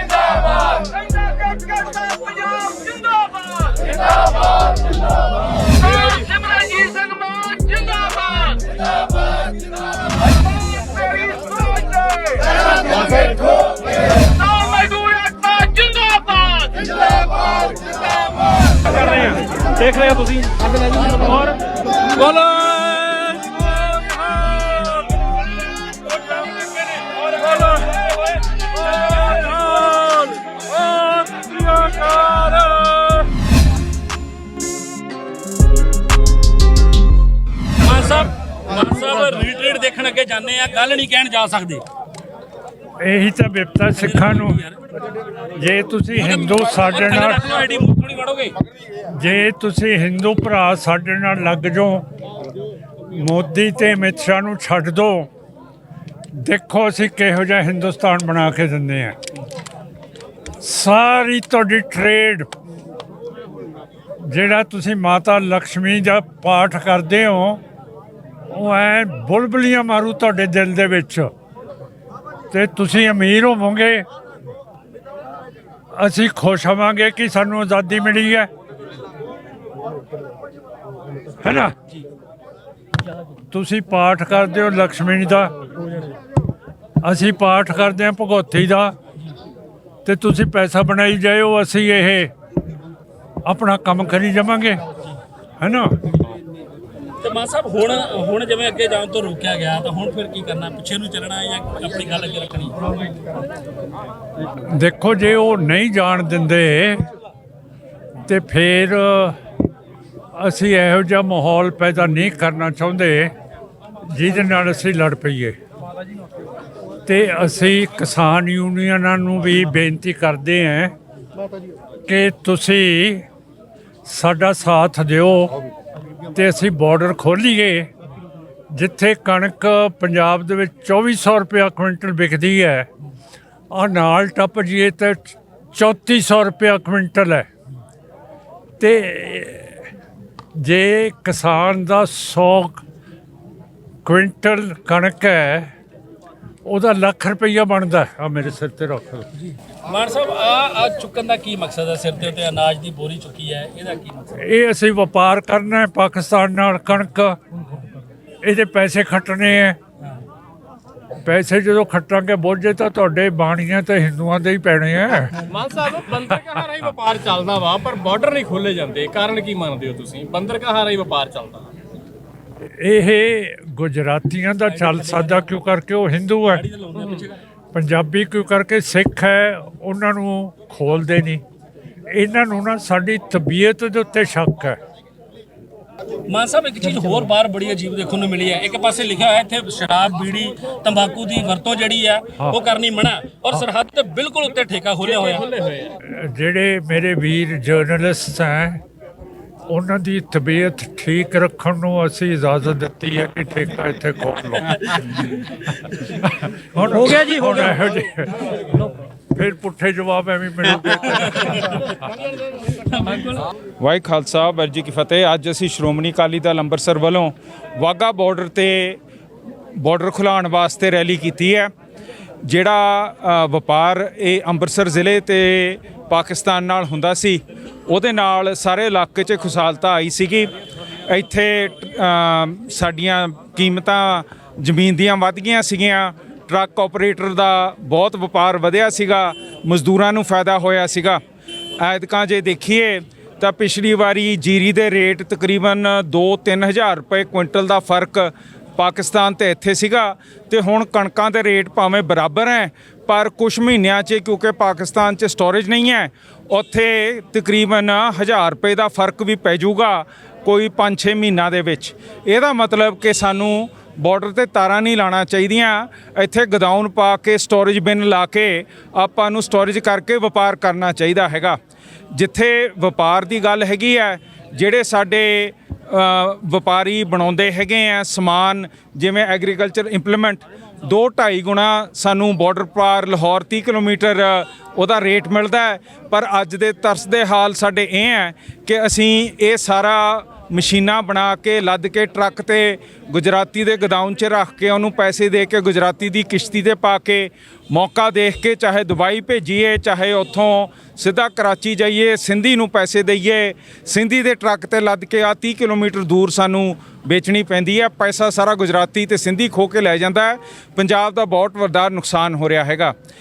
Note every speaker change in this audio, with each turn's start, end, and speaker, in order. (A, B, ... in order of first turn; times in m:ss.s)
0:02.5-0:03.5 A
0:05.8-0:08.6 A
0:13.0-0:13.6 A
0:14.2-0:17.7 A
0:18.7-0:25.3 A
0:18.9-0:19.2 B
0:26.0-0:33.3 A
0:37.8-0:41.8 A
0:43.0-0:44.6 C
0:44.0-0:44.8 A
0:45.6-0:47.5 C
0:46.2-0:48.6 A
0:49.1-0:52.1 C
0:53.1-0:55.3 C
0:56.4-0:59.2 C
1:00.6-1:02.5 C
1:04.2-1:07.6 C
1:08.5-1:11.3 C
1:12.5-1:14.1 C
1:15.9-1:18.5 C
1:21.4-1:21.8 C
1:23.5-1:25.5 C
1:27.0-1:28.9 C
1:30.0-1:32.3 C
1:33.5-1:34.8 C
1:35.6-1:36.0 C
1:37.2-1:42.8 A
1:44.7-1:47.0 C
1:48.3-1:49.4 C
1:50.4-1:53.3 C
1:54.0-1:55.6 C
1:57.1-2:00.9 C
2:02.1-2:03.3 C
2:04.1-2:05.6 C
2:06.3-2:07.9 C
2:08.7-2:12.9 C
2:13.7-2:17.5 C
2:18.8-2:19.8 C
2:20.6-2:22.8 C
2:24.0-2:25.7 C
2:26.6-2:29.3 C
2:29.9-2:34.3 A
2:34.3-2:37.4 C
2:38.4-2:39.8 C
2:41.2-2:45.4 C
2:45.4-2:51.7 D
2:52.8-2:56.6 C
2:54.6-2:55.5 A
2:56.5-2:57.4 A
2:57.7-3:01.4 C
3:02.1-3:04.8 C
3:06.3-3:15.5 A
3:15.0-3:15.9 D
3:16.0-3:18.8 C
3:19.7-3:25.0 C
3:26.2-3:28.5 C
3:29.3-3:31.8 C
3:31.1-3:31.8 A
3:32.8-3:33.5 A
3:33.8-3:39.0 B
3:39.8-3:41.7 B
3:42.4-3:50.5 B
3:51.1-4:01.2 B
4:01.8-4:31.6 B
4:32.1-5:12.9 B